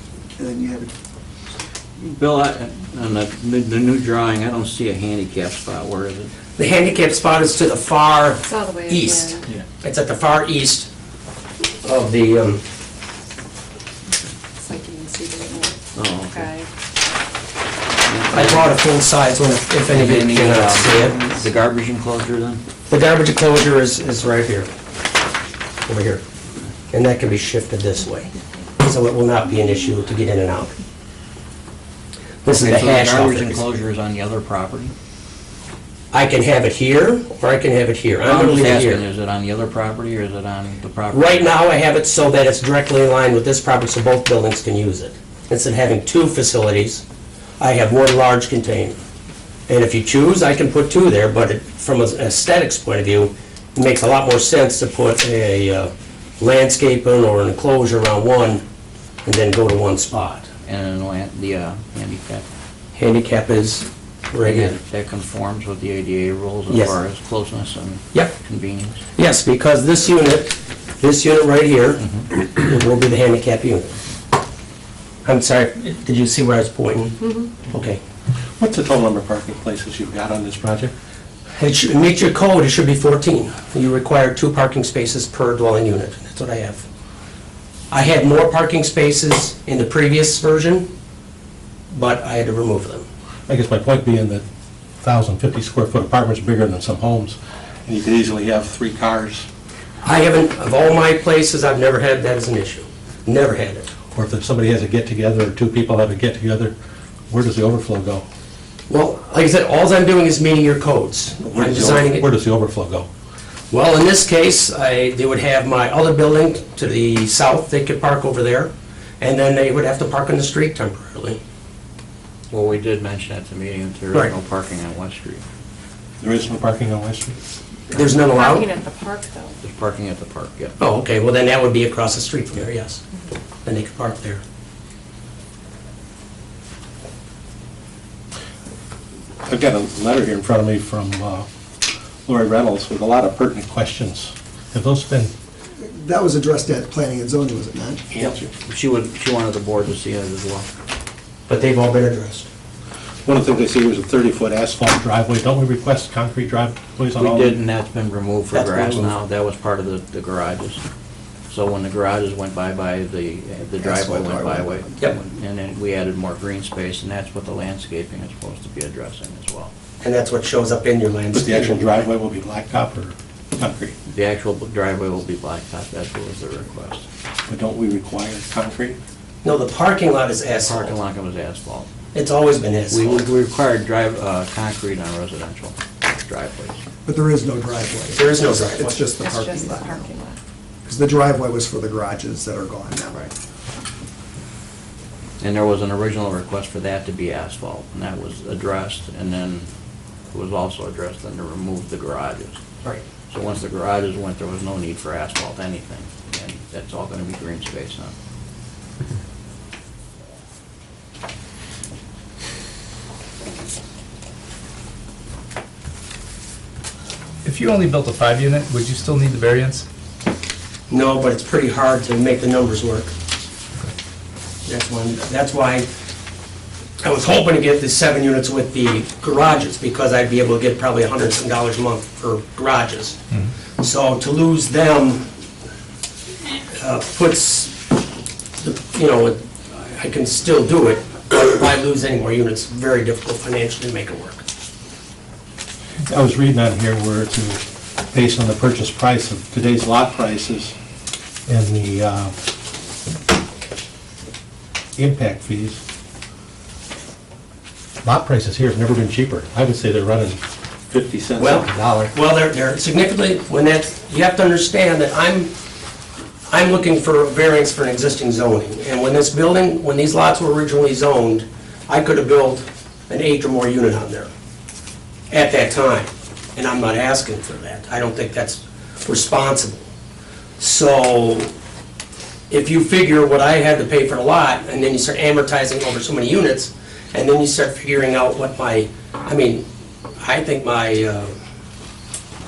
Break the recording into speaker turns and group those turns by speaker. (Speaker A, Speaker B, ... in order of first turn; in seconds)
Speaker A: 0.4-0.9, 145.8-148.0, 163.8-164.9, 187.1-190.1, 190.8-193.3
Speaker B: 2.0-6.3, 15.9-16.5, 18.1-18.8, 19.9-22.6, 32.6-34.9, 38.3-41.5, 60.6-62.5, 64.4-69.0, 122.5-125.4, 129.6-130.8, 148.7-150.7, 157.2-160.8, 161.5-169.7, 174.1-177.1, 180.6-181.9, 182.9-186.8, 195.4-199.7, 200.3-202.6, 203.3-208.1
Speaker C: 6.6-10.9, 11.8-12.6, 18.3-21.3, 22.9-24.7, 25.9-26.2, 26.9-30.7, 32.5-33.6, 36.1-39.0, 41.1-47.0, 47.6-49.0, 49.7-58.6, 59.2-60.5, 63.0-64.8, 66.7-67.0, 69.2-73.9, 75.2-78.0, 81.6-86.9, 87.9-90.9, 91.9-93.1, 100.0-103.9, 108.9-112.3, 113.7-121.4, 127.9-128.7, 130.8-133.0, 133.7-134.4, 151.5-152.5, 158.5-159.2, 170.0-171.8, 179.4-181.0, 182.1-183.3, 188.2-189.0, 220.9-223.1, 224.7-225.9, 227.0-233.2, 233.8-235.3, 236.7-237.8, 238.6-244.4, 261.4-265.5, 266.5-274.3, 275.3-279.9, 280.6-281.5, 282.5-289.7, 290.2-291.3
Speaker D: 8.5-9.5, 14.6-16.7, 128.2-129.6, 189.1-190.4
Speaker E: 78.6-80.9, 93.5-94.4, 95.0-99.5, 104.1-106.7, 107.3-108.2, 111.4-113.1, 126.2-127.4, 139.4-141.5, 142.3-145.3, 148.1-148.5, 153.2-157.6, 171.3-173.9, 177.5-179.0, 246.1-247.6, 248.1-250.8, 251.5-252.4, 255.0-255.8, 258.0-262.1
Speaker F: 217.4-219.8